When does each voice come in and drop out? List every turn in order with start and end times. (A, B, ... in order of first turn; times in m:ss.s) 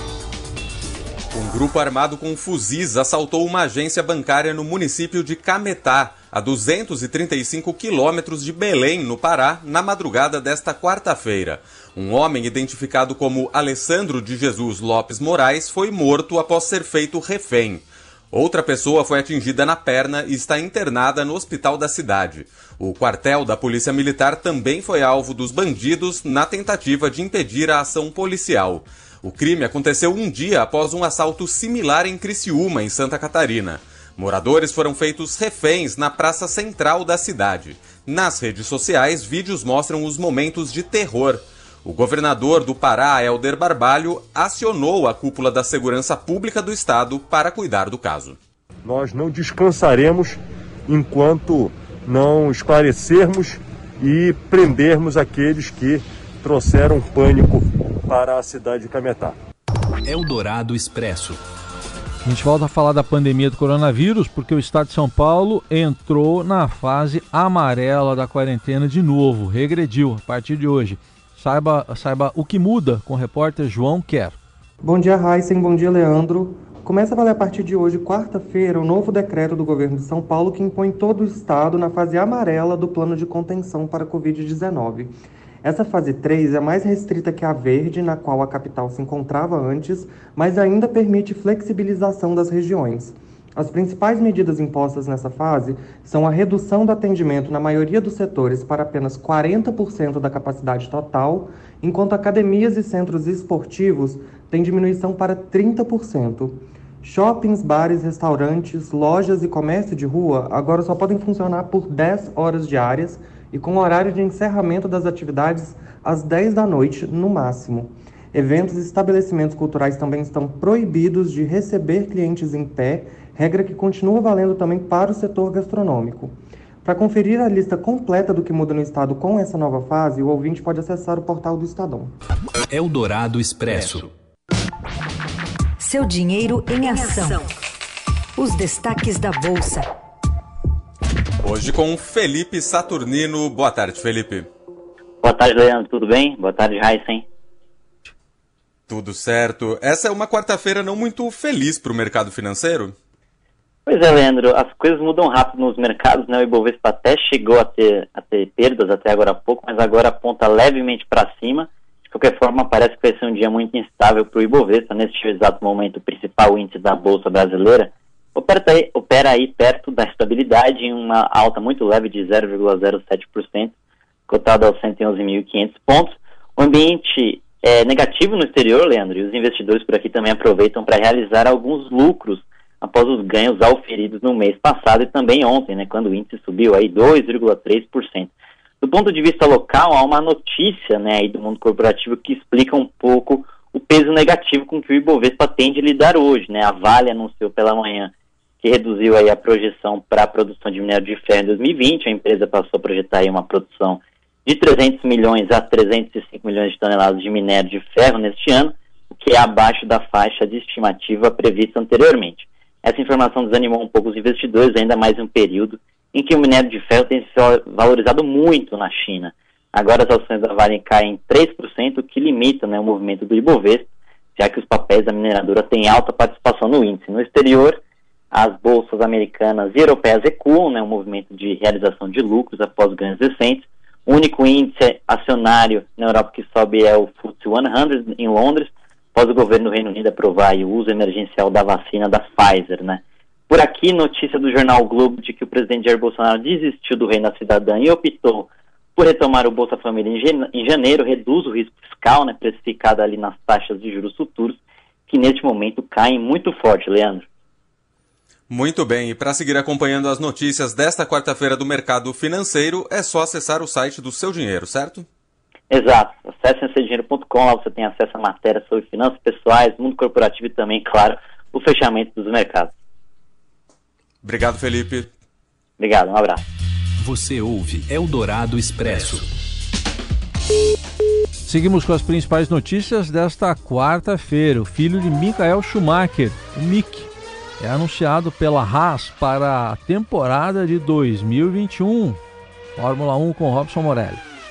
0:01.3-0:48.4 A
0:48.8-0:59.3 B
1:00.0-1:01.4 C
1:02.2-1:14.4 D
1:14.8-2:12.1 E
2:12.7-2:14.1 C
2:15.8-2:17.5 F
2:18.4-2:19.9 F
2:21.4-2:24.5 A
2:25.2-2:27.2 G
2:28.9-2:32.9 A
2:33.8-2:53.7 G
2:54.3-3:08.3 G
3:08.8-3:18.1 G
3:18.6-3:47.8 G
3:48.3-4:14.6 G
4:15.1-4:17.2 G
4:18.5-4:25.1 A
4:25.7-4:32.7 G
4:34.2-4:35.1 A
4:35.8-4:36.4 G
4:37.0-4:39.2 C
4:41.4-4:52.2 D
4:52.8-4:54.2 D